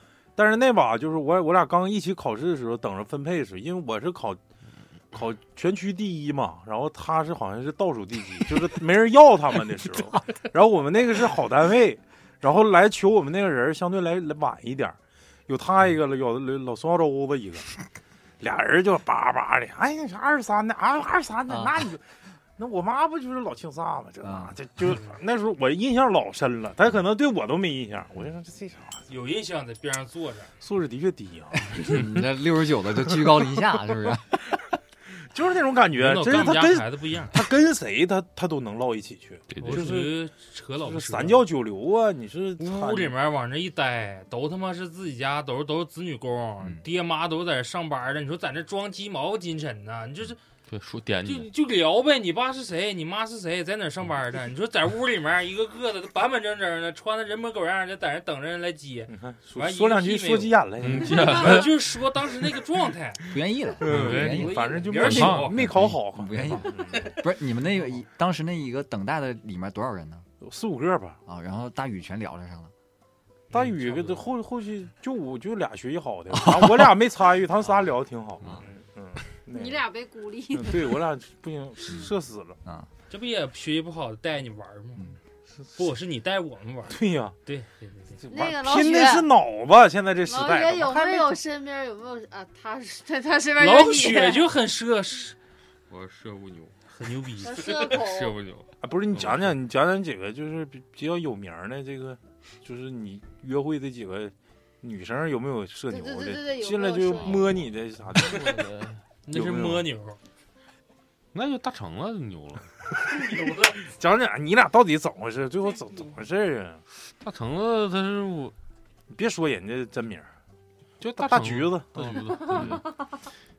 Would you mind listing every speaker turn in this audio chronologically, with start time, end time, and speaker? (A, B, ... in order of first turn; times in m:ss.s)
0:00.4-0:04.4 A
0:05.1-0:15.0 A
0:15.5-0:17.7 A
0:18.4-0:22.0 A
0:21.5-0:21.8 B
0:22.6-0:29.0 A
0:24.2-0:24.5 B
0:29.1-0:30.5 C
0:30.6-0:32.2 A
0:31.7-0:34.4 B
0:33.2-0:33.4 A
0:35.3-0:40.2 A
0:36.0-0:37.4 C
0:39.5-0:40.0 D
0:39.6-0:41.4 C
0:40.8-0:43.1 A
0:42.6-0:50.4 C
0:50.7-0:51.5 D
0:51.2-1:03.2 C
0:59.1-1:01.7 A
1:00.8-1:01.8 D
1:03.3-1:10.2 B
1:03.8-1:05.6 C
1:03.8-1:07.1 A
1:03.8-1:04.4 D
1:05.0-1:05.5 D
1:10.4-1:11.2 A
1:11.2-1:12.7 B
1:13.5-1:19.8 A
1:13.6-1:14.3 D
1:16.3-1:17.0 B
1:19.5-1:21.0 E
1:20.5-1:22.6 A
1:23.1-1:25.1 C
1:25.8-1:28.2 C
1:26.9-1:27.3 A
1:28.1-1:31.3 A
1:28.3-1:29.3 E
1:30.2-1:34.4 E
1:33.6-1:35.4 C
1:35.9-1:36.8 D
1:36.9-1:37.6 C
1:37.4-1:38.3 E
1:37.4-1:39.5 D
1:38.8-1:48.6 A
1:45.9-1:47.5 E
1:48.1-1:49.0 D
1:49.2-1:50.2 C
1:49.3-1:49.8 A
1:51.3-1:52.7 D
1:52.9-1:56.8 A
1:53.2-1:53.7 C
1:57.0-1:58.5 D
1:59.1-2:00.3 A
2:01.0-2:02.8 A
2:01.0-2:02.9 D